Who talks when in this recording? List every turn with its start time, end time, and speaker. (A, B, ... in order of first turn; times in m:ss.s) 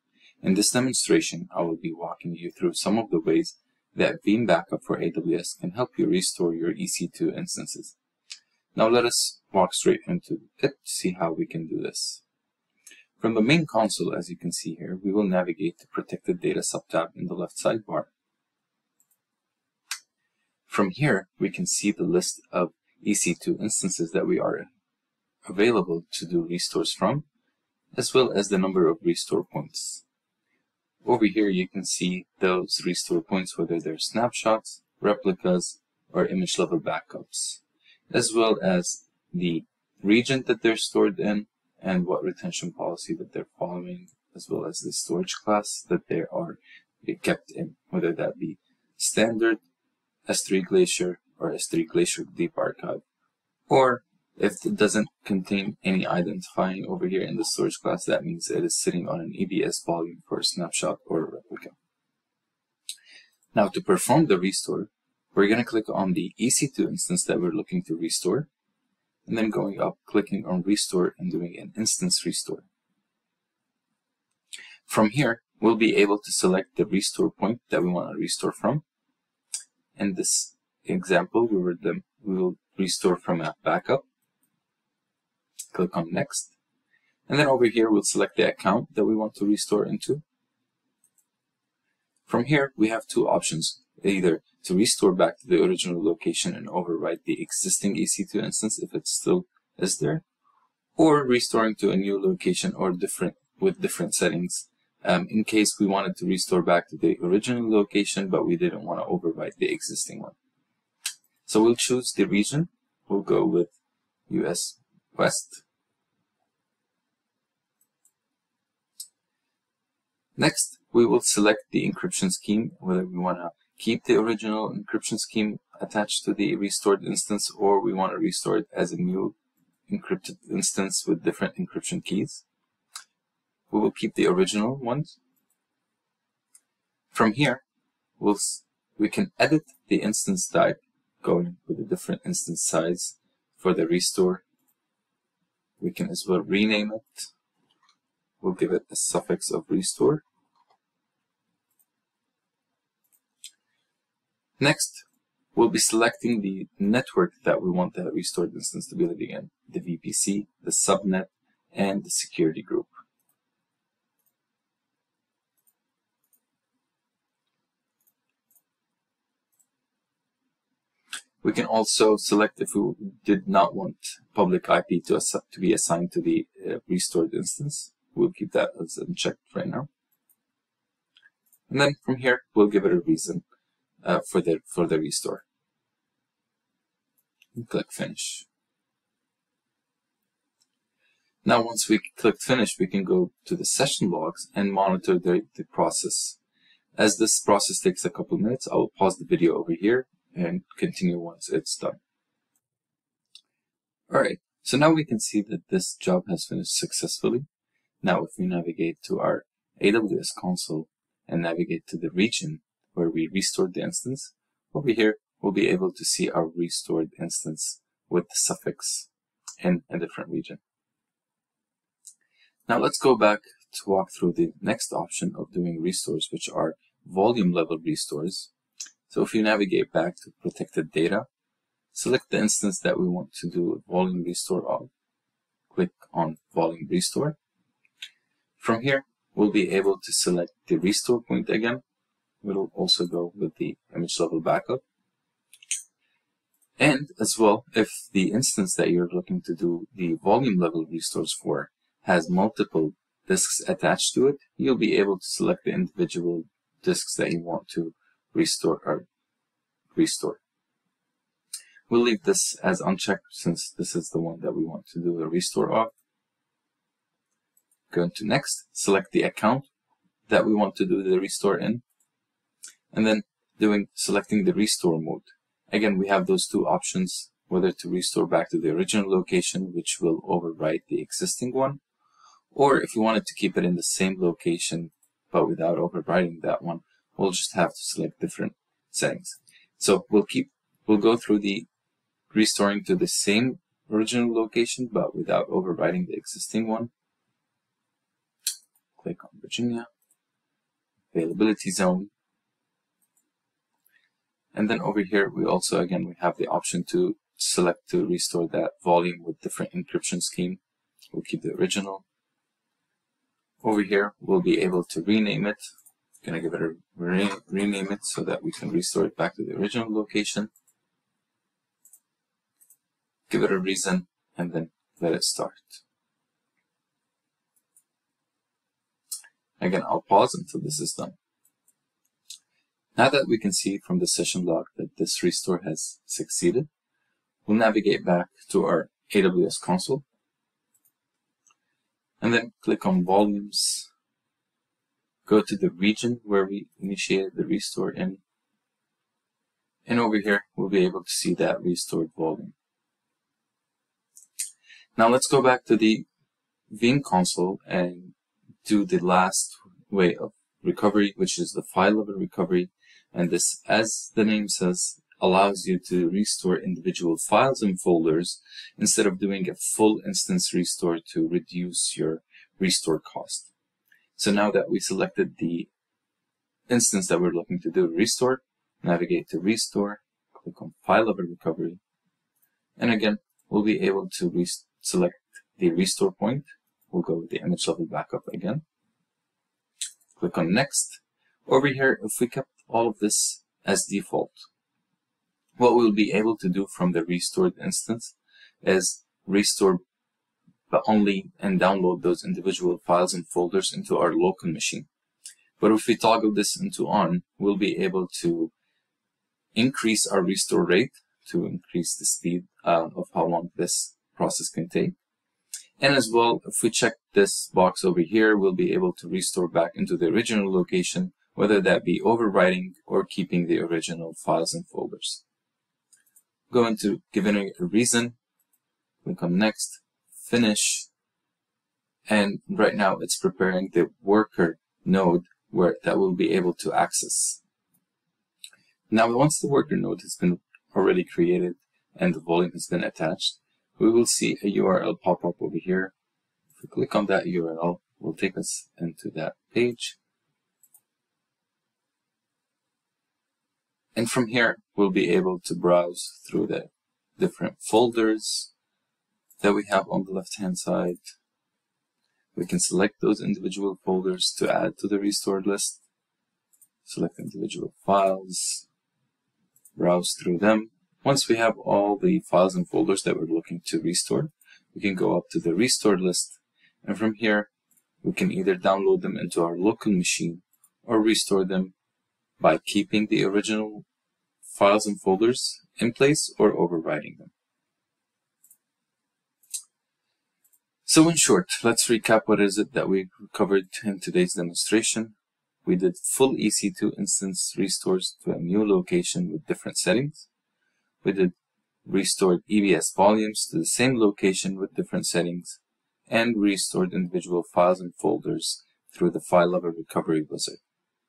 0:00.4-0:07.9 A
0:08.7-0:12.2 A
0:13.2-0:18.1 A
0:20.7-0:24.7 A
0:25.4-0:27.2 A
0:27.9-0:30.0 A
0:31.0-0:49.6 A
0:50.3-0:53.0 A
0:53.7-1:01.7 A
1:03.5-1:08.5 A
1:09.2-1:12.6 A
1:14.8-1:18.8 A
1:20.0-1:24.0 A
1:25.7-1:26.5 A
1:27.3-1:30.2 A
1:32.3-1:40.2 A
1:41.0-1:50.3 A
1:51.4-1:53.7 A
1:54.3-1:55.6 A
2:00.4-2:09.3 A
2:09.9-2:12.4 A
2:13.7-2:15.2 A
2:17.1-2:17.6 A
2:18.2-2:24.4 A
2:25.8-2:27.3 A
2:28.4-2:30.2 A
2:34.6-2:42.9 A
2:51.4-2:59.9 A
3:01.7-3:03.4 A
3:04.0-3:05.4 A
3:07.5-3:08.4 A
3:11.4-3:16.4 A
3:17.0-3:22.0 A
3:24.1-3:27.4 A
3:28.0-3:39.1 A
3:39.6-3:40.6 A
3:42.7-3:48.5 A
3:49.1-3:51.2 A
3:51.9-3:54.9 A
3:55.7-3:57.4 A
3:58.6-4:01.8 A
4:02.4-4:04.8 A
4:06.8-4:19.1 A
4:19.9-4:20.4 A
4:21.9-4:25.9 A
4:27.9-4:29.7 A
4:30.3-4:31.8 A
4:32.9-4:41.8 A
4:42.5-4:51.7 A
4:52.3-4:56.9 A
4:59.0-4:59.9 A
5:01.1-5:02.1 A
5:04.5-5:10.6 A
5:11.1-5:12.0 A
5:13.6-5:15.6 A
5:16.2-5:20.5 A
5:23.3-5:25.8 A
5:29.6-5:31.2 A
5:33.0-5:36.7 A
5:37.4-5:40.0 A
5:42.2-5:43.9 A
5:45.2-5:48.2 A
5:49.8-5:52.5 A
5:55.0-5:56.0 A
5:56.7-5:58.1 A
5:58.6-6:13.5 A
6:14.2-6:15.7 A
6:16.7-6:21.8 A
6:22.8-6:28.6 A
6:30.2-6:34.5 A
6:35.6-6:39.8 A
6:40.7-6:44.9 A
6:45.6-6:48.5 A
6:49.5-6:54.9 A
6:55.8-7:05.2 A
7:06.5-7:08.2 A
7:09.0-7:10.9 A
7:12.1-7:17.4 A
7:18.9-7:25.9 A
7:26.6-7:30.0 A
7:33.9-7:38.5 A
7:39.4-7:41.0 A
7:42.3-7:45.8 A
7:46.8-7:48.6 A
7:49.8-7:57.5 A
7:58.0-8:01.7 A
8:02.4-8:03.8 A
8:04.4-8:07.3 A
8:10.8-8:20.3 A
8:21.0-8:21.3 A
8:21.8-8:30.6 A